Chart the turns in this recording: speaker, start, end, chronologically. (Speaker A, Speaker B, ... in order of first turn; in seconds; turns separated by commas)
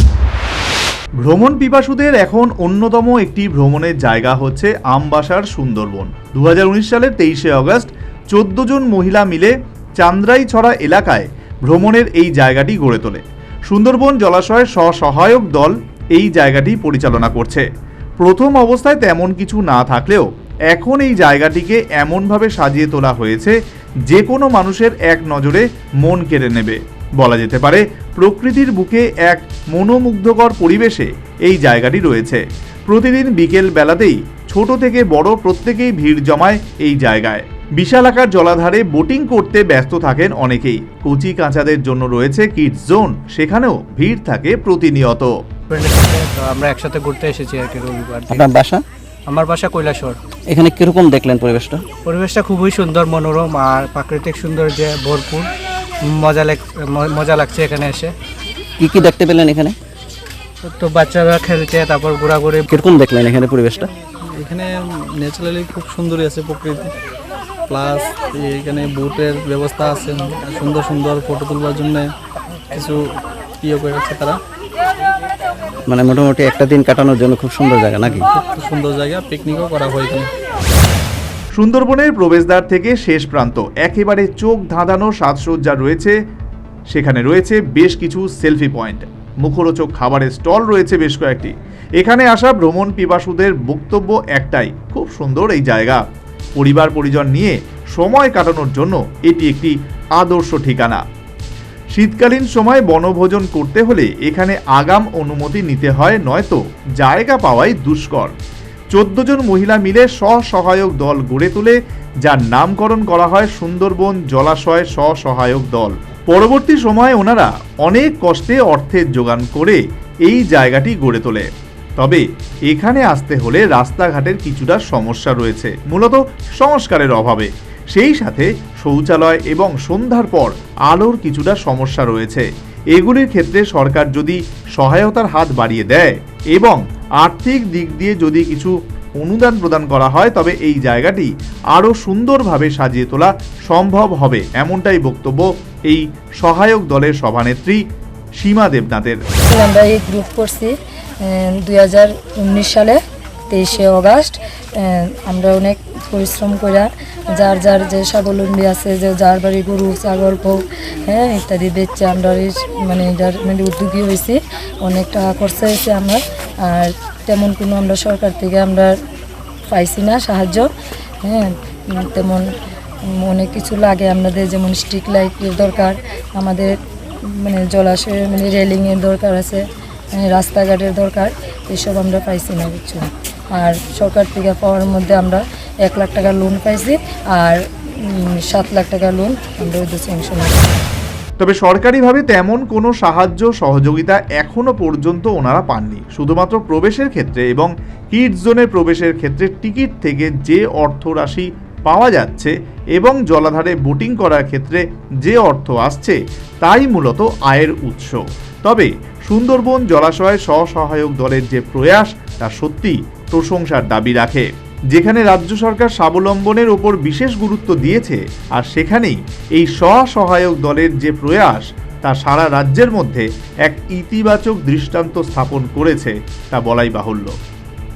Speaker A: 1.2-17.7, Speaker A: 18.2-23.6, Speaker A: 24.1-45.3, Speaker B: 45.7-48.5, Speaker C: 48.3-48.8, Speaker B: 49.3-50.2, Speaker C: 50.5-51.8, Speaker B: 52.0-55.5, Speaker B: 56.1-58.1, Speaker C: 58.8-59.8, Speaker B: 60.6-62.7, Speaker C: 62.7-63.9, Speaker D: 64.3-66.9, Speaker D: 67.7-72.1, Speaker D: 72.7-73.0, Speaker D: 73.6-74.4, Speaker C: 75.9-78.3, Speaker D: 78.1-80.3, Speaker A: 81.6-86.2, Speaker A: 86.9-96.0, Speaker A: 96.6-101.0, Speaker A: 102.0-108.3, Speaker A: 108.9-147.8, Speaker A: 148.4-149.2, Speaker E: 149.4-169.0, Speaker E: 169.7-170.7, Speaker E: 171.2-172.5, Speaker E: 173.0-190.7, Speaker A: 191.4-227.3